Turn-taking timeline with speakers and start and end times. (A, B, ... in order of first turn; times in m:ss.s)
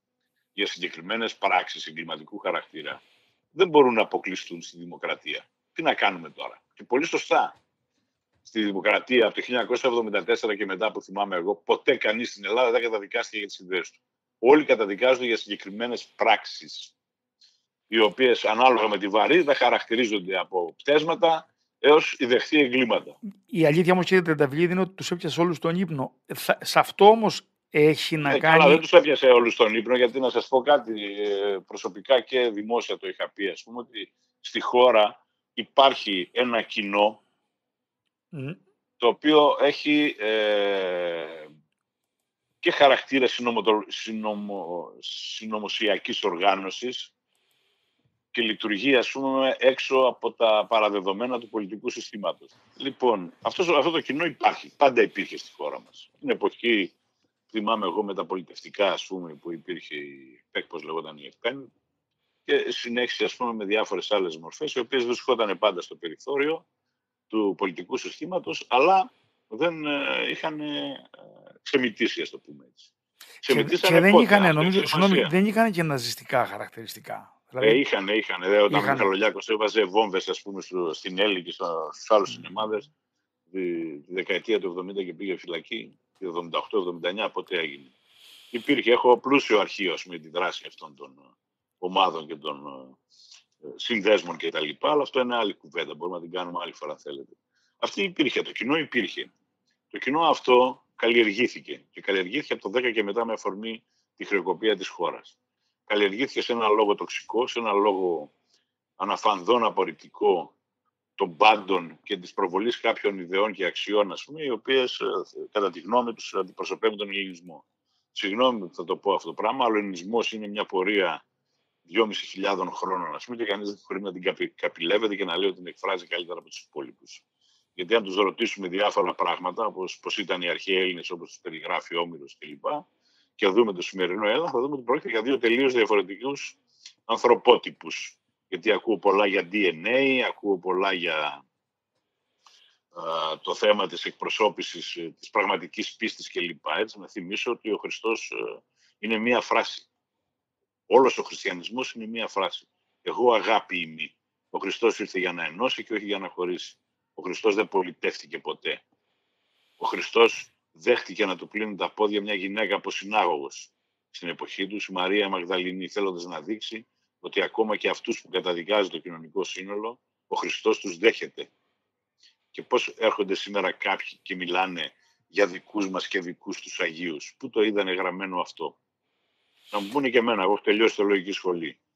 0:00.6-0:03.0 A
0:03.6-0:07.6 A
0:08.4-0:16.9 A
0:17.9-0:23.2 A
0:23.5-0:28.8 B
0:28.3-0:37.2 A
0:38.3-0:38.6 B
0:39.0-0:41.5 A
0:42.6-0:47.1 A
0:48.3-0:56.9 A
0:57.5-1:01.7 A
1:02.5-1:06.6 A
1:07.3-1:11.1 A
1:11.6-1:12.9 A
1:13.4-1:15.3 A
1:13.5-1:17.8 B
1:17.6-1:22.9 A
1:18.7-1:19.1 B
1:23.5-1:27.9 A
1:28.5-1:31.2 A
1:31.8-1:33.0 A
1:33.6-1:39.3 A
1:39.9-1:45.4 A
1:45.9-1:48.3 A
1:49.0-1:50.5 A
1:51.2-2:01.2 A
2:01.9-2:07.2 A
2:07.8-2:12.9 A
2:13.4-2:21.4 A
2:22.9-2:29.9 A
2:30.9-2:38.8 A
2:39.8-2:51.5 A
2:52.5-2:58.8 A
2:59.7-3:01.8 A